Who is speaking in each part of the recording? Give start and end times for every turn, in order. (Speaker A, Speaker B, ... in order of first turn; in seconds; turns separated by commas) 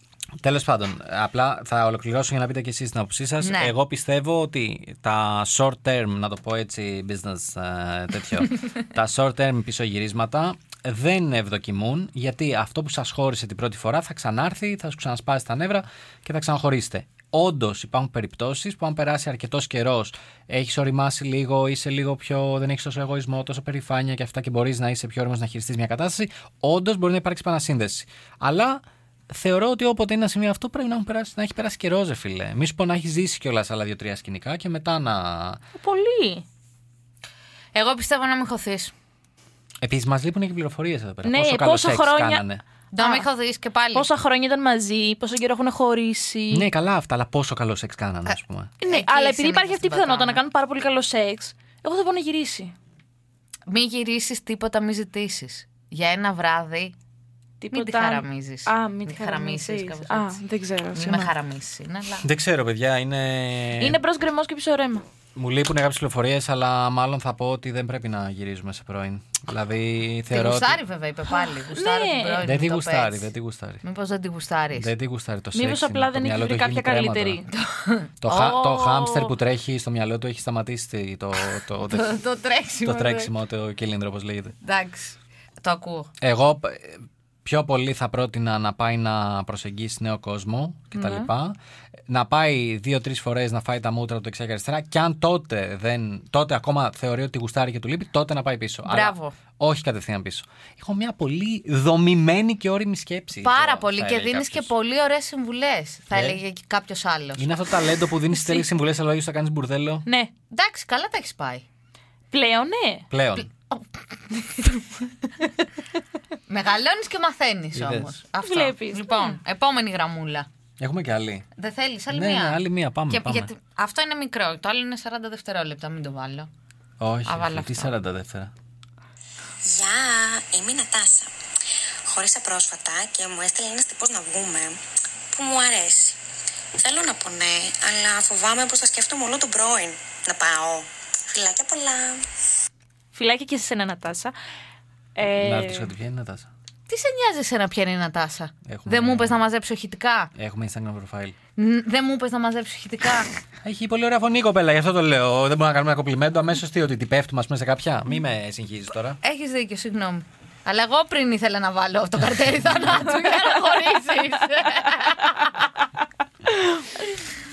Speaker A: 0.4-35.6, Speaker B: 3.4-3.7, Speaker C: 35.8-36.5, Speaker B: 37.7-38.9, Speaker A: 39.8-42.6, Speaker C: 41.2-42.4, Speaker B: 42.9-44.1, Speaker C: 43.0-43.3, Speaker C: 43.9-46.7, Speaker A: 46.5-48.7, Speaker B: 48.3-50.4, Speaker C: 48.8-52.7, Speaker B: 53.7-56.9, Speaker C: 57.6-61.3, Speaker B: 57.7-60.4, Speaker B: 60.9-62.2, Speaker A: 62.2-64.0, Speaker C: 63.8-65.0, Speaker A: 65.3-70.8, Speaker B: 70.3-73.3, Speaker C: 71.5-72.5, Speaker A: 72.4-73.8, Speaker B: 73.8-74.9, Speaker A: 74.7-77.4, Speaker C: 75.5-77.5, Speaker B: 77.5-79.1, Speaker A: 78.2-82.1, Speaker B: 81.4-83.3, Speaker A: 82.8-84.5, Speaker B: 84.6-86.1, Speaker A: 86.2-91.6, Speaker A: 92.1-104.7, Speaker B: 98.8-99.3, Speaker B: 103.4-107.4, Speaker A: 106.1-106.4, Speaker A: 107.4-110.0, Speaker C: 108.3-108.7, Speaker C: 110.0-110.3, Speaker B: 110.5-111.6, Speaker C: 112.3-113.0, Speaker A: 113.1-113.5, Speaker B: 113.5-115.2, Speaker B: 116.5-120.5, Speaker A: 117.7-118.1, Speaker C: 118.4-119.4, Speaker A: 120.8-121.5, Speaker B: 121.6-126.5, Speaker A: 122.1-123.5, Speaker A: 127.0-128.5, Speaker B: 127.2-127.9, Speaker D: 129.7-131.2, Speaker D: 132.1-134.8, Speaker D: 135.6-136.0, Speaker D: 136.8-142.2, Speaker C: 143.1-144.3, Speaker C: 145.1-145.9, Speaker A: 145.4-146.5, Speaker B: 146.9-150.3, Speaker A: 148.7-149.4, Speaker A: 150.3-151.3, Speaker B: 151.6-153.3, Speaker A: 153.6-159.2, Speaker B: 159.2-165.5